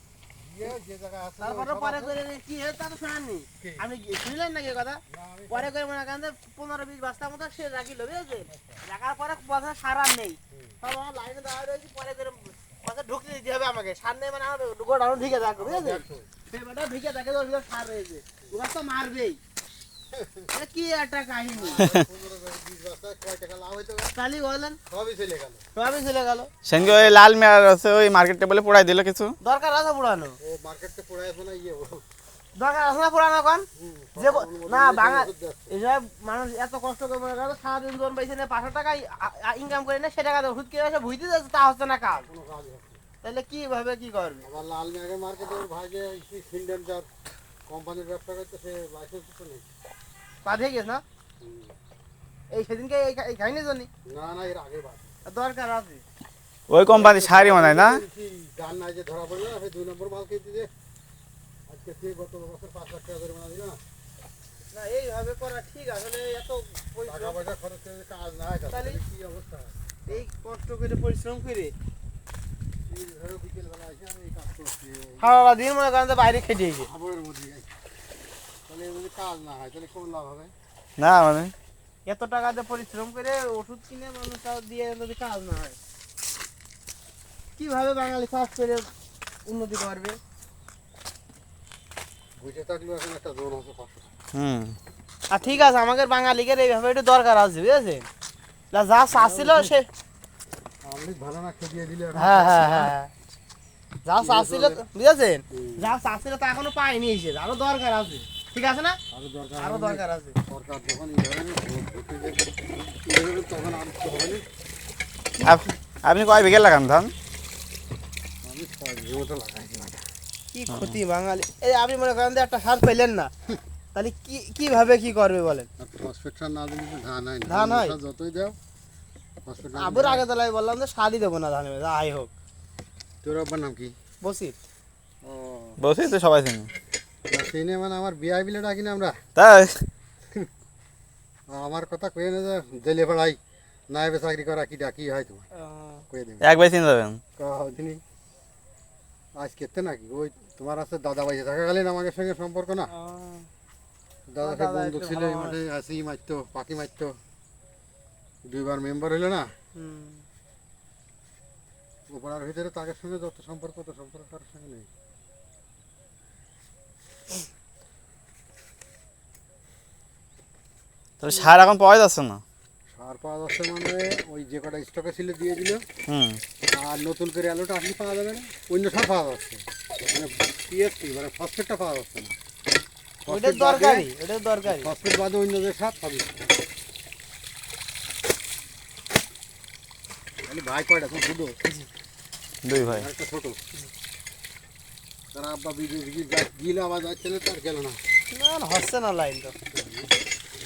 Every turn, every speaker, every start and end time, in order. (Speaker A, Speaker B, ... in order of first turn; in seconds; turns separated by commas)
Speaker A: 0.3-2.2, Speaker B: 1.4-19.4, Speaker A: 3.6-3.9, Speaker A: 5.1-5.7, Speaker A: 8.4-8.8, Speaker A: 10.5-10.8, Speaker A: 15.2-16.3, Speaker A: 20.1-20.5, Speaker B: 20.5-21.8, Speaker A: 21.5-24.1, Speaker B: 24.1-24.8, Speaker A: 24.9-25.7, Speaker B: 25.8-26.5, Speaker C: 26.6-29.4, Speaker A: 26.7-27.1, Speaker B: 29.4-30.4, Speaker A: 30.4-32.0, Speaker B: 32.5-42.3, Speaker A: 33.7-35.7, Speaker A: 42.2-43.0, Speaker B: 43.2-44.5, Speaker A: 44.4-47.1, Speaker A: 47.7-49.6, Speaker B: 50.4-51.0, Speaker A: 51.4-51.7, Speaker B: 52.5-53.9, Speaker A: 54.0-55.2, Speaker B: 55.2-56.0, Speaker C: 56.7-58.0, Speaker A: 56.8-60.7, Speaker A: 61.7-63.8, Speaker B: 64.7-67.5, Speaker A: 67.0-70.2, Speaker B: 68.7-69.0, Speaker B: 70.1-71.7, Speaker A: 72.9-75.4, Speaker B: 75.2-76.9, Speaker A: 76.8-77.7, Speaker A: 78.7-80.5, Speaker C: 81.0-81.5, Speaker B: 82.0-85.8, Speaker B: 87.6-88.9, Speaker B: 89.5-90.2, Speaker A: 92.4-94.1, Speaker C: 94.3-94.8, Speaker B: 95.3-98.1, Speaker A: 95.4-95.7, Speaker B: 98.7-99.9, Speaker A: 99.1-99.8, Speaker A: 100.8-102.9, Speaker B: 102.1-103.1, Speaker B: 104.0-109.0, Speaker A: 104.2-104.8, Speaker A: 105.5-105.9, Speaker A: 109.1-114.4, Speaker B: 109.6-110.4, Speaker C: 115.4-117.1, Speaker A: 118.4-120.0, Speaker B: 120.5-123.3, Speaker C: 120.7-121.0, Speaker B: 123.9-125.7, Speaker A: 125.8-128.6, Speaker B: 127.5-128.0, Speaker A: 129.5-130.3, Speaker B: 129.7-132.3, Speaker A: 133.2-133.9, Speaker B: 134.2-134.6, Speaker A: 135.2-135.8, Speaker C: 135.8-136.7, Speaker A: 137.3-139.2, Speaker C: 139.4-139.9, Speaker A: 141.5-145.5, Speaker B: 145.5-146.1, Speaker A: 146.1-146.6, Speaker C: 146.4-147.2, Speaker A: 147.4-148.0, Speaker A: 149.3-152.9, Speaker B: 152.9-153.5, Speaker A: 154.3-157.2, Speaker B: 154.4-155.6, Speaker A: 158.5-159.5, Speaker B: 159.8-160.2, Speaker A: 162.1-164.9, Speaker C: 171.2-172.4, Speaker A: 172.9-175.8, Speaker C: 176.1-176.4, Speaker A: 176.7-182.4, Speaker A: 183.2-184.1, Speaker B: 183.3-184.9, Speaker A: 184.7-186.4, Speaker A: 190.5-191.6, Speaker C: 192.6-193.1, Speaker A: 192.8-193.6, Speaker A: 195.3-198.0, Speaker B: 198.3-199.6, Speaker A: 199.7-200.1